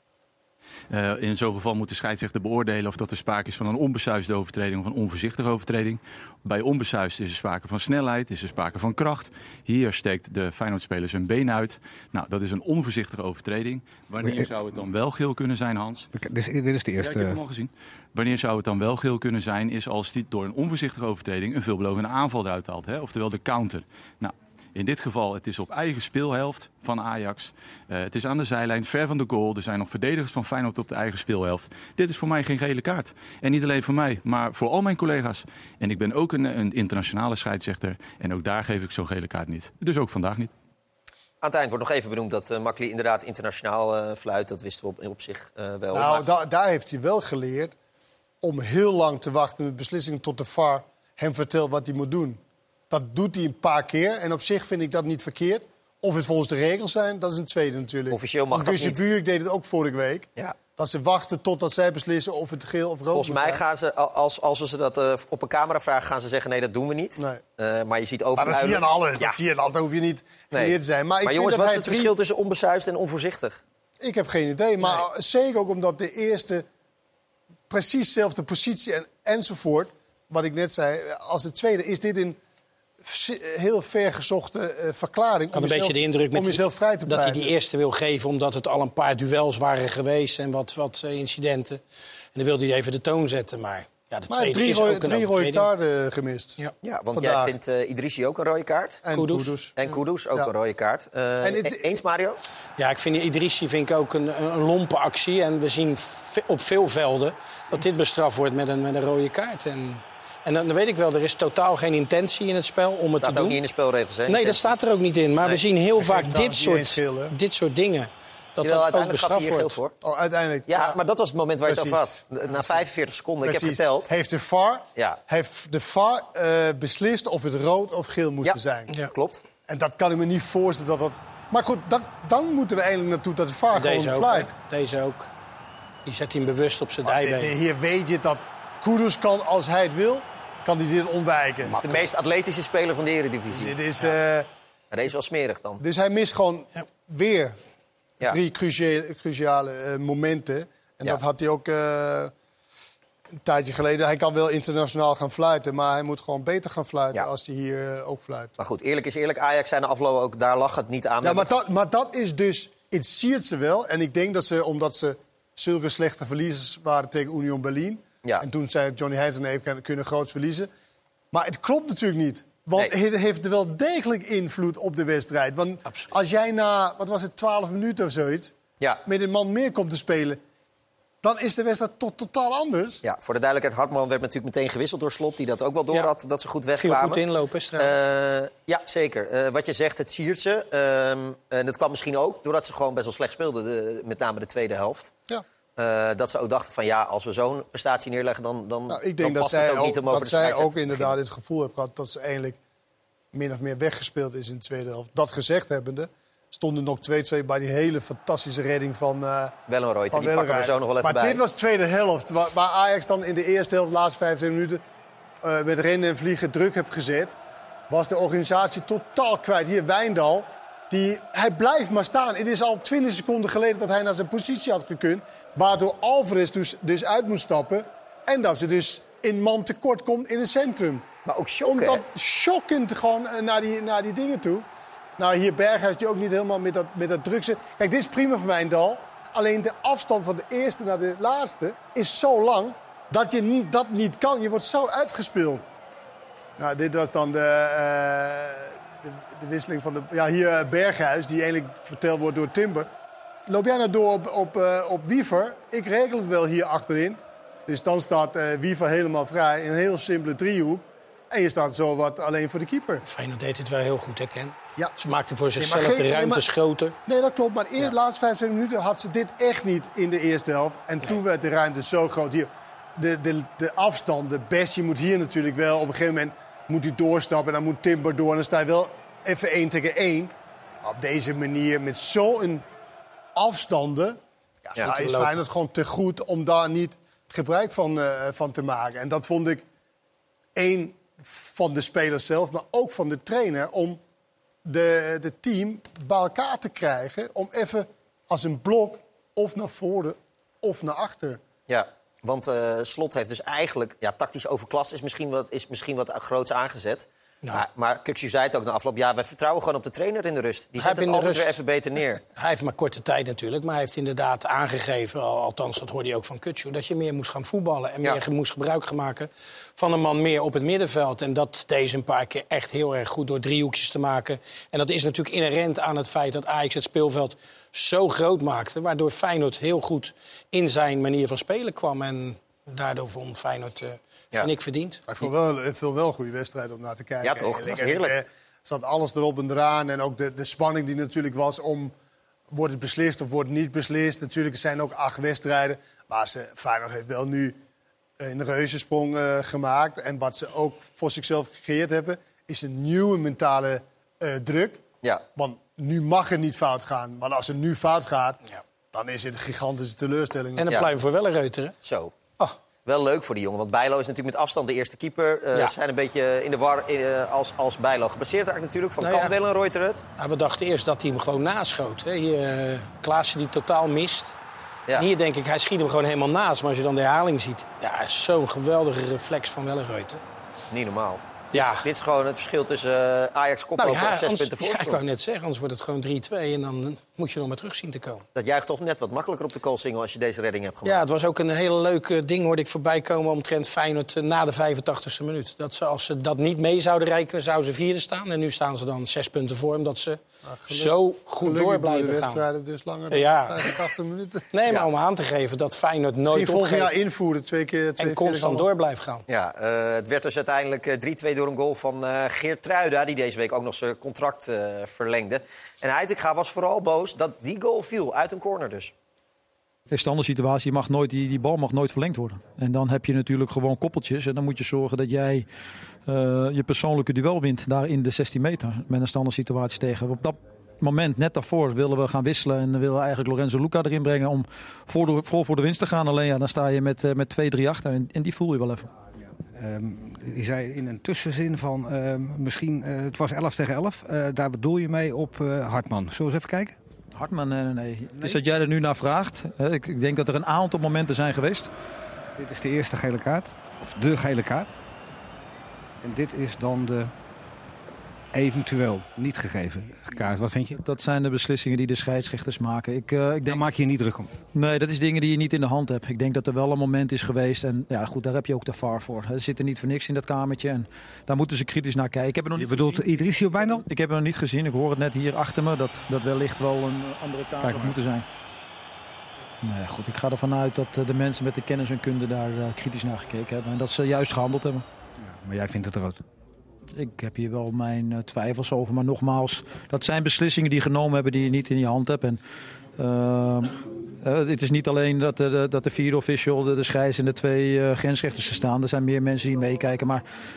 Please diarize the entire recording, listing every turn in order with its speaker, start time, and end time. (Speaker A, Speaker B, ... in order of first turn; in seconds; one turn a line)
Speaker A: 0.9-16.1
Speaker B: 16.1-17.4
Speaker A: 17.0-40.5
Speaker C: 41.4-46.2
Speaker D: 45.9-47.7
Speaker D: 48.4-63.6
Speaker C: 58.1-59.0
Speaker C: 63.1-69.4
Speaker D: 68.4-72.1
Speaker C: 70.5-73.6
Speaker D: 74.0-76.6
Speaker D: 77.7-82.4
Speaker D: 83.0-87.5
Speaker E: 85.5-91.8
Speaker E: 92.3-95.7
Speaker D: 94.3-96.6
Speaker C: 96.8-99.0
Speaker D: 97.1-97.5
Speaker D: 99.0-100.5
Speaker E: 99.1-99.5
Speaker C: 99.8-102.4
Speaker D: 101.4-102.0
Speaker E: 102.8-113.6
Speaker C: 113.2-114.7
Speaker E: 114.3-119.8
Speaker D: 116.0-117.3
Speaker C: 118.6-119.9
Speaker D: 120.0-120.9
Speaker C: 120.7-124.1
Speaker D: 121.7-128.9
Speaker C: 129.1-129.4
Speaker D: 129.7-134.5
Speaker E: 133.7-135.3
Speaker E: 136.1-137.5
Speaker D: 137.0-141.8
Speaker E: 141.6-142.0
Speaker C: 141.8-143.7
Speaker D: 143.5-144.5
Speaker C: 144.9-145.8
Speaker D: 145.8-147.6
Speaker D: 148.2-152.3
Speaker D: 153.4-158.5
Speaker C: 158.6-161.5
Speaker D: 161.2-170.7
Speaker D: 171.3-178.5
Speaker E: 175.8-176.1
Speaker D: 179.1-180.4
Speaker D: 181.2-183.0
Speaker C: 183.0-187.2
Speaker E: 186.8-187.9
Speaker C: 187.8-195.1
Speaker C: 195.8-201.1
Speaker D: 198.9-202.6
Speaker D: 203.3-209.5
Speaker C: 209.7-211.4
Speaker D: 210.1-214.8
Speaker D: 215.4-217.3
Speaker D: 217.9-231.1
Speaker C: 231.2-232.0
Speaker D: 231.6-234.7
Speaker D: 235.2-245.7
Speaker D: 246.6-252.9
Speaker D: 253.5-263.0
Speaker E: 263.0-266.9
Speaker D: 265.6-266.4
Speaker D: 267.1-282.6
Speaker D: 283.3-289.6
Speaker E: 284.8-285.4
Speaker D: 290.6-294.0
Speaker D: 294.6-301.4
Speaker C: 301.7-312.2
Speaker E: 310.8-311.6
Speaker E: 312.3-335.1
Speaker D: 335.1-341.9
Speaker C: 337.2-338.1
Speaker D: 342.5-347.6
Speaker D: 348.2-354.8
Speaker D: 355.4-358.4
Speaker D: 358.9-360.7
Speaker E: 360.6-361.7
Speaker C: 361.8-362.1
Speaker C: 362.8-370.0
Speaker E: 369.0-369.3
Speaker E: 370.2-374.4
Speaker E: 374.9-380.2
Speaker C: 380.7-385.0
Speaker E: 381.5-381.8
Speaker E: 383.8-388.2
Speaker C: 388.3-391.0
Speaker E: 390.8-402.4
Speaker D: 400.5-404.5
Speaker E: 403.1-403.7
Speaker E: 404.5-406.9
Speaker D: 406.3-408.7
Speaker E: 408.0-409.2
Speaker C: 409.3-418.9
Speaker F: 419.9-425.4
Speaker F: 426.1-438.9
Speaker B: 439.6-446.8
Speaker F: 447.1-451.7
Speaker B: 452.4-454.7
Speaker B: 456.0-457.1
Speaker B: 458.3-460.8
Speaker F: 460.8-463.6
Speaker B: 463.5-464.3
Speaker F: 464.5-478.2
Speaker B: 472.6-473.8
Speaker B: 477.6-478.0
Speaker F: 479.6-484.8
Speaker B: 485.2-486.2
Speaker F: 486.9-492.4
Speaker F: 493.0-500.2